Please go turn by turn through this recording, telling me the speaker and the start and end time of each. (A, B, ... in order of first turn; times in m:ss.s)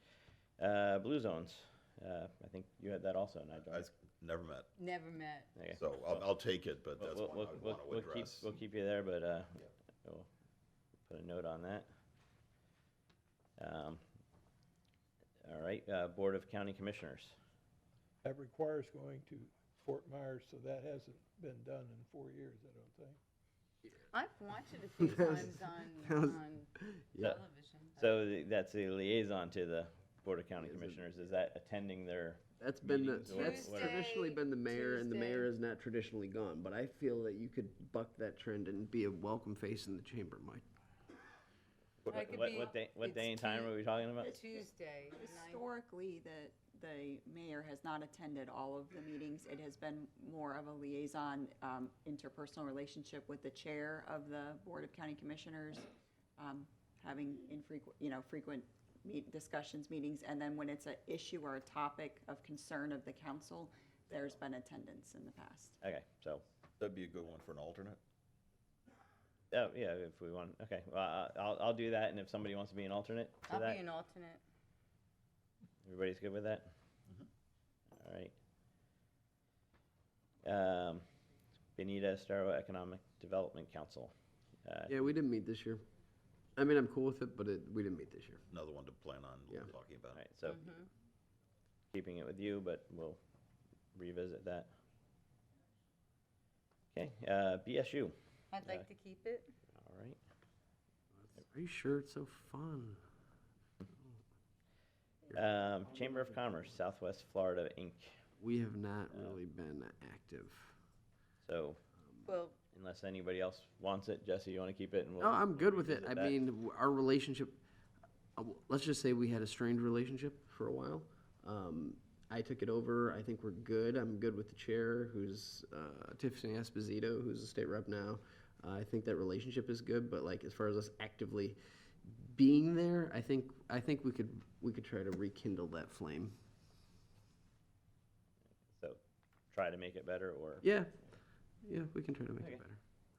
0:00.6-0:03.9 A
0:03.7-0:04.7 B
0:04.8-0:05.5 C
0:05.6-0:06.3 A
0:05.8-0:08.5 B
0:07.0-0:10.3 A
0:11.1-0:11.9 A
0:13.6-0:14.0 A
0:15.4-0:17.4 A
0:18.2-0:23.2 D
0:24.1-0:28.2 C
0:25.0-0:27.4 E
0:28.0-0:34.0 A
0:30.6-0:31.0 E
0:32.6-0:40.6 E
0:33.3-0:35.5 C
0:42.0-0:44.3 A
0:42.1-0:45.6 C
0:44.2-0:55.9 F
0:56.4-1:05.8 F
1:05.8-1:06.4 A
1:06.8-1:08.0 B
1:09.5-1:13.8 A
1:13.5-1:14.4 C
1:15.8-1:16.7 A
1:18.0-1:18.3 A
1:20.4-1:21.0 A
1:21.8-1:24.1 A
1:24.6-1:25.1 A
1:24.9-1:25.8 E
1:26.6-1:28.4 E
1:28.5-1:30.2 B
1:30.1-1:30.6 A
1:30.4-1:30.9 C
1:31.9-1:33.2 A
1:34.0-1:34.7 A
1:36.9-1:38.9 A
1:38.5-1:39.5 C
1:39.7-1:40.2 A
1:41.3-1:43.0 E
1:45.3-1:48.1 A
1:48.4-1:50.7 E
1:49.1-1:49.4 A
1:51.4-1:51.8 A
1:52.3-1:52.6 C
1:52.7-1:56.4 A
1:55.2-1:57.6 E
1:58.4-2:16.3 E
2:18.7-2:19.0 A
2:19.5-2:20.7 A
2:20.6-2:21.0 E
2:21.6-2:22.8 E